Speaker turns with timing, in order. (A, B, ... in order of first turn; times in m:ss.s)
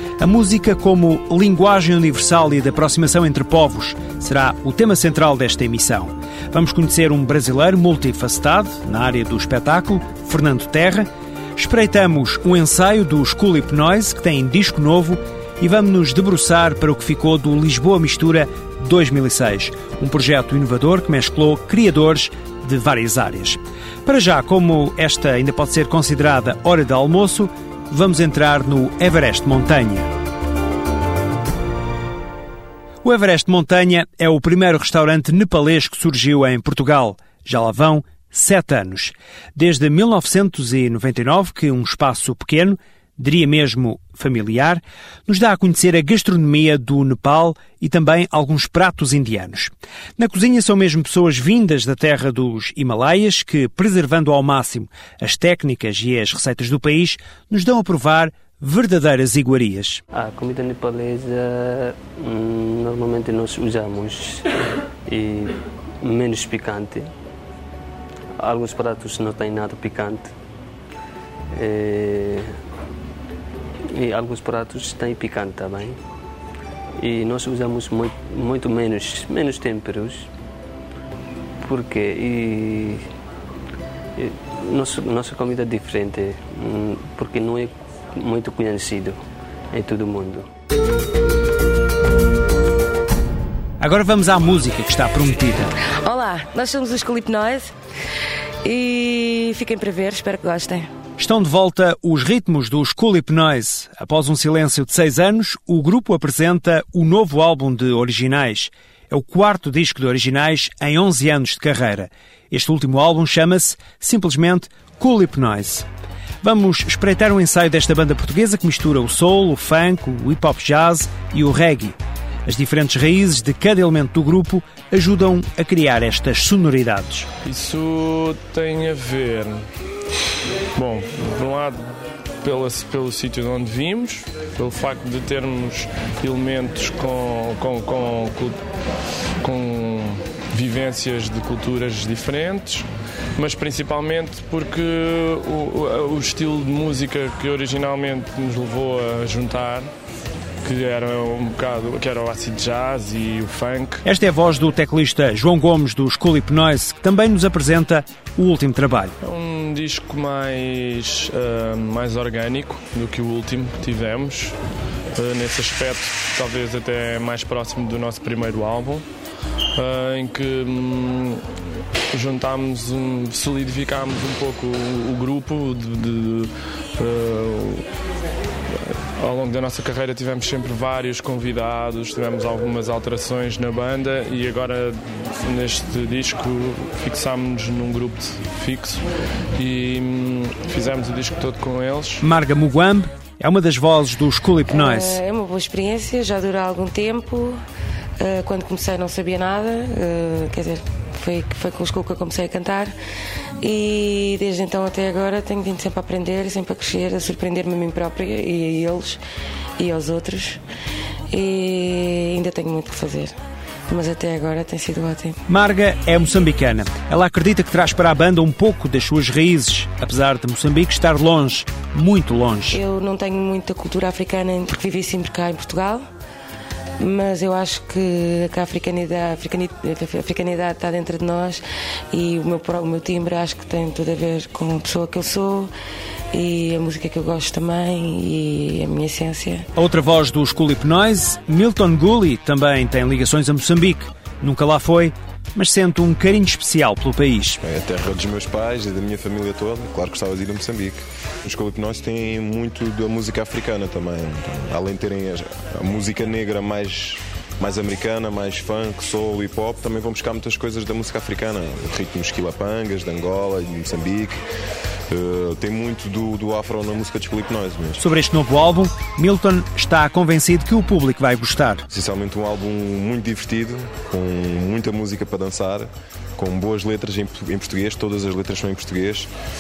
0:00.2-0:30.1 A
0:33.0-1:00.0 A
1:00.1-1:04.5 B
1:05.0-1:07.1 B
1:08.4-1:10.3 B
1:11.5-1:12.5 B
1:13.9-1:16.0 B
1:17.0-1:20.3 B
1:21.6-1:23.0 B
1:24.2-1:29.2 B
1:29.7-1:30.5 B
1:33.8-1:35.7 A
1:36.0-1:37.7 C
1:38.6-1:40.9 C
1:41.2-1:55.8 A
1:56.4-2:07.3 A
2:07.4-2:09.6 D
2:10.7-2:18.6 D
2:19.4-2:29.9 D
2:30.6-2:34.0 D
2:34.0-2:39.2 A
2:39.2-2:44.6 D
2:45.1-2:49.0 D
2:49.8-2:51.4 D
2:52.1-2:57.8 D
2:59.2-3:09.0 D
3:09.6-3:12.2 D
3:12.2-3:15.2 A
3:14.7-3:17.6 C
3:18.2-3:22.9 C
3:23.6-3:29.2 C
3:29.8-3:30.6 C
3:31.3-3:33.4 C
3:33.9-3:35.4 C
3:35.5-3:42.8 A
3:42.7-3:46.0 C
3:47.0-3:55.7 C
3:56.3-3:59.6 C
3:59.7-4:07.6 A
4:07.6-4:24.4 E
4:25.1-4:28.0 E
4:28.0-4:31.8 A
4:31.9-4:39.3 E